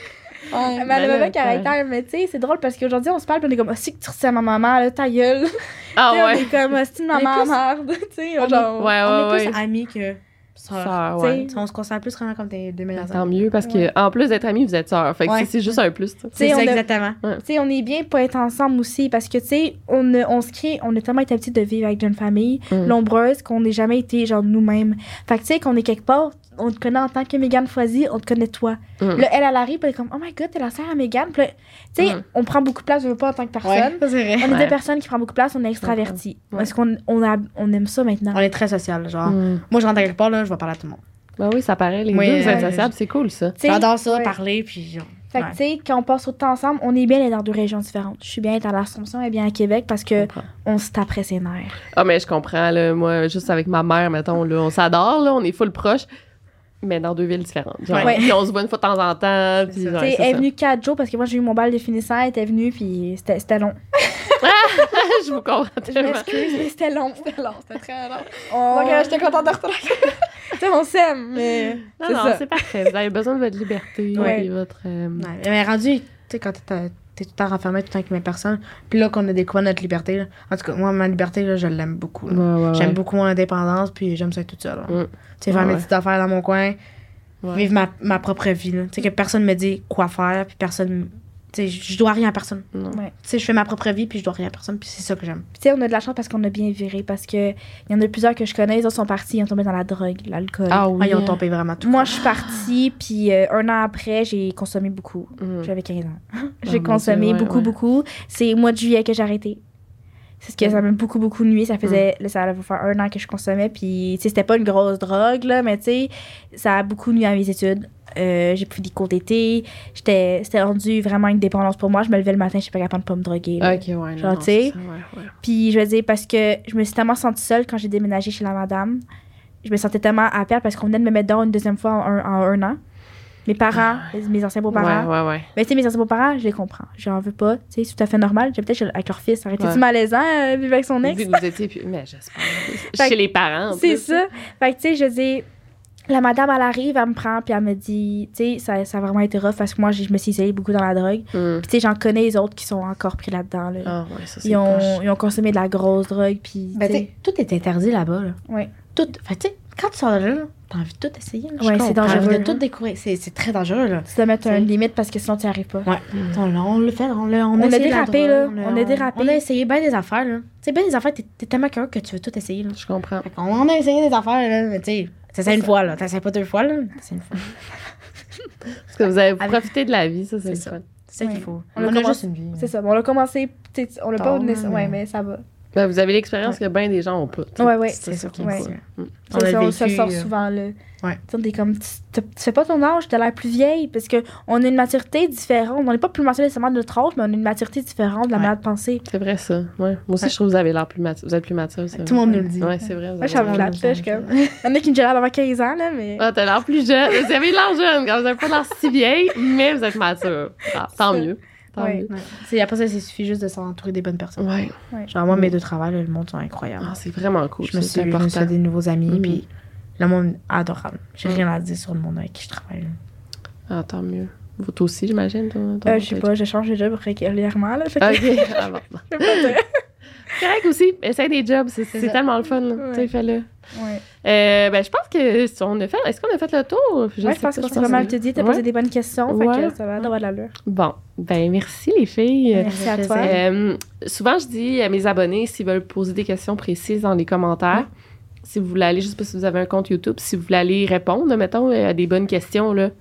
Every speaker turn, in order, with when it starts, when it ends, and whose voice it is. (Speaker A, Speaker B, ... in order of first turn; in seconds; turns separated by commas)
Speaker A: 0.5-1.0, Speaker B: 0.7-9.0, Speaker C: 0.9-1.7, Speaker C: 6.0-6.5, Speaker C: 7.1-7.5, Speaker C: 8.5-9.6, Speaker A: 9.0-13.5, Speaker C: 10.7-11.5, Speaker B: 11.2-11.6, Speaker C: 13.0-16.6, Speaker B: 13.6-13.9, Speaker A: 15.2-15.8, Speaker A: 16.4-17.2, Speaker B: 16.4-16.8, Speaker B: 17.4-38.4, Speaker A: 33.6-34.5, Speaker C: 34.5-34.8, Speaker C: 35.8-36.7, Speaker A: 38.3-41.0, Speaker C: 39.2-39.6, Speaker C: 41.4-43.5, Speaker A: 42.1-42.9, Speaker B: 42.4-42.7, Speaker B: 43.6-44.3, Speaker A: 43.6-45.5, Speaker B: 45.3-51.8, Speaker C: 50.2-50.5, Speaker C: 51.9-56.0, Speaker C: 56.8-60.4, Speaker A: 57.9-58.2, Speaker B: 58.0-58.3, Speaker A: 59.7-60.0, Speaker B: 60.0-64.8, Speaker C: 64.4-66.6, Speaker B: 65.9-72.7, Speaker A: 68.0-69.9, Speaker C: 72.0-75.3, Speaker A: 74.1-74.4, Speaker B: 74.1-74.5, Speaker A: 75.2-86.8, Speaker C: 82.3-83.0, Speaker C: 84.9-85.8, Speaker A: 87.5-92.7, Speaker C: 92.7-93.0, Speaker A: 93.2-95.5, Speaker B: 95.6-100.8, Speaker C: 100.7-101.4, Speaker A: 101.0-102.2, Speaker B: 101.8-109.6, Speaker C: 105.4-105.7, Speaker C: 106.7-107.7, Speaker B: 110.4-124.8, Speaker C: 123.6-125.3, Speaker B: 125.4-129.0, Speaker B: 129.6-132.8, Speaker B: 133.4-141.4, Speaker C: 134.7-135.5, Speaker C: 141.0-144.2, Speaker B: 143.7-145.4, Speaker B: 146.1-157.1, Speaker C: 151.3-151.7, Speaker C: 153.8-155.0, Speaker A: 156.7-158.4, Speaker A: 158.9-164.7, Speaker B: 161.6-162.6, Speaker C: 161.7-162.4, Speaker B: 164.1-165.9, Speaker A: 165.8-177.4, Speaker B: 167.6-169.4, Speaker C: 172.7-173.2, Speaker C: 178.9-180.8, Speaker A: 179.4-179.7, Speaker A: 180.5-182.7, Speaker B: 181.2-185.4, Speaker A: 184.2-185.0, Speaker C: 185.7-189.1, Speaker B: 187.6-188.7, Speaker A: 187.9-188.8, Speaker B: 189.3-190.8, Speaker A: 189.3-190.3, Speaker B: 191.3-199.0, Speaker C: 199.1-203.8, Speaker A: 201.9-202.8, Speaker B: 203.2-206.2, Speaker A: 203.3-204.5, Speaker C: 206.2-212.1, Speaker B: 211.8-212.1, Speaker A: 212.1-214.4, Speaker C: 214.4-214.7, Speaker A: 215.1-216.9, Speaker C: 216.8-218.5, Speaker A: 217.6-219.5, Speaker C: 219.1-219.4, Speaker A: 220.0-223.0, Speaker C: 223.7-226.3, Speaker B: 225.8-229.7, Speaker C: 228.0-229.6, Speaker C: 230.3-233.4, Speaker A: 231.9-232.2, Speaker B: 232.8-233.1, Speaker B: 233.7-234.0, Speaker C: 234.2-238.6, Speaker B: 237.2-240.5, Speaker A: 237.8-238.1, Speaker C: 239.3-239.8, Speaker C: 240.7-247.9, Speaker B: 242.5-243.3, Speaker A: 242.6-243.4, Speaker C: 248.4-252.9